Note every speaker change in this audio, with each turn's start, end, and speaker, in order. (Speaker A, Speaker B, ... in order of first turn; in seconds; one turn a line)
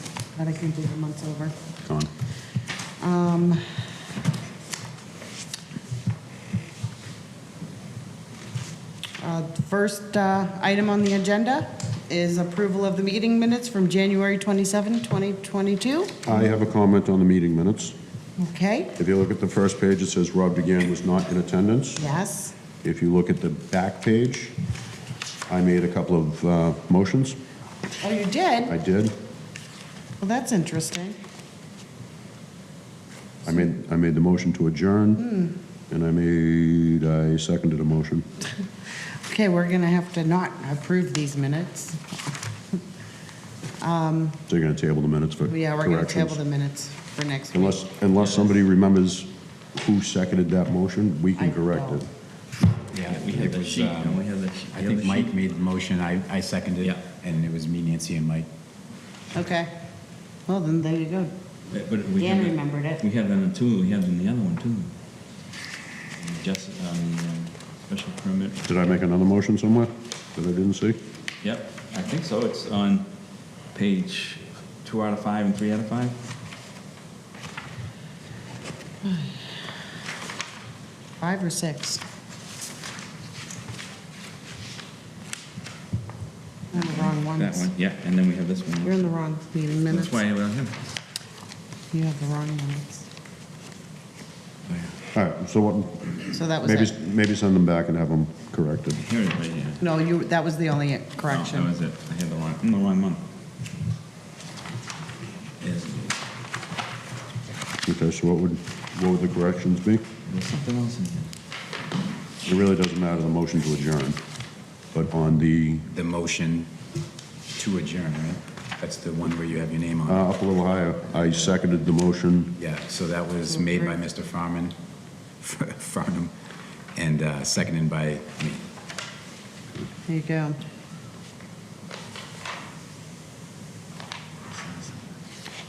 Speaker A: 0.4-1.5
Speaker A: 3.0-3.6
Speaker A: 9.2-16.2
Speaker B: 16.3-17.9
Speaker A: 18.4-18.9
Speaker B: 19.0-22.0
Speaker A: 22.0-22.5
Speaker B: 22.8-24.6
Speaker B: 25.5-27.4
Speaker A: 28.0-28.8
Speaker B: 28.7-29.1
Speaker A: 30.2-31.2
Speaker B: 33.5-35.2
Speaker A: 35.2-35.5
Speaker B: 35.9-38.2
Speaker A: 39.2-42.2
Speaker A: 43.8-44.4
Speaker B: 44.5-46.4
Speaker A: 45.5-47.9
Speaker B: 47.5-52.0
Speaker A: 51.4-52.0
Speaker C: 52.9-58.5
Speaker D: 53.1-55.3
Speaker A: 59.3-59.7
Speaker A: 60.5-61.3
Speaker D: 61.7-64.9
Speaker A: 62.2-63.0
Speaker D: 66.2-68.6
Speaker B: 68.7-71.0
Speaker D: 71.4-73.1
Speaker D: 73.7-76.2
Speaker A: 79.0-79.3
Speaker A: 81.2-82.0
Speaker A: 86.7-87.7
Speaker D: 86.8-89.1
Speaker A: 88.8-90.1
Speaker D: 89.9-90.8
Speaker A: 91.9-93.0
Speaker D: 94.7-95.0
Speaker B: 95.1-99.0
Speaker A: 96.3-97.0
Speaker D: 99.0-99.8
Speaker A: 99.8-101.7
Speaker D: 101.3-103.2
Speaker D: 105.6-106.1
Speaker B: 107.8-110.0
Speaker D: 110.3-111.3
Speaker B: 112.4-114.2
Speaker B: 114.9-115.9
Speaker C: 115.9-116.7
Speaker C: 117.6-120.3
Speaker B: 120.1-122.5
Speaker C: 122.6-124.8
Speaker A: 123.5-124.0
Speaker C: 125.4-126.3
Speaker C: 127.0-128.7
Speaker A: 130.1-130.6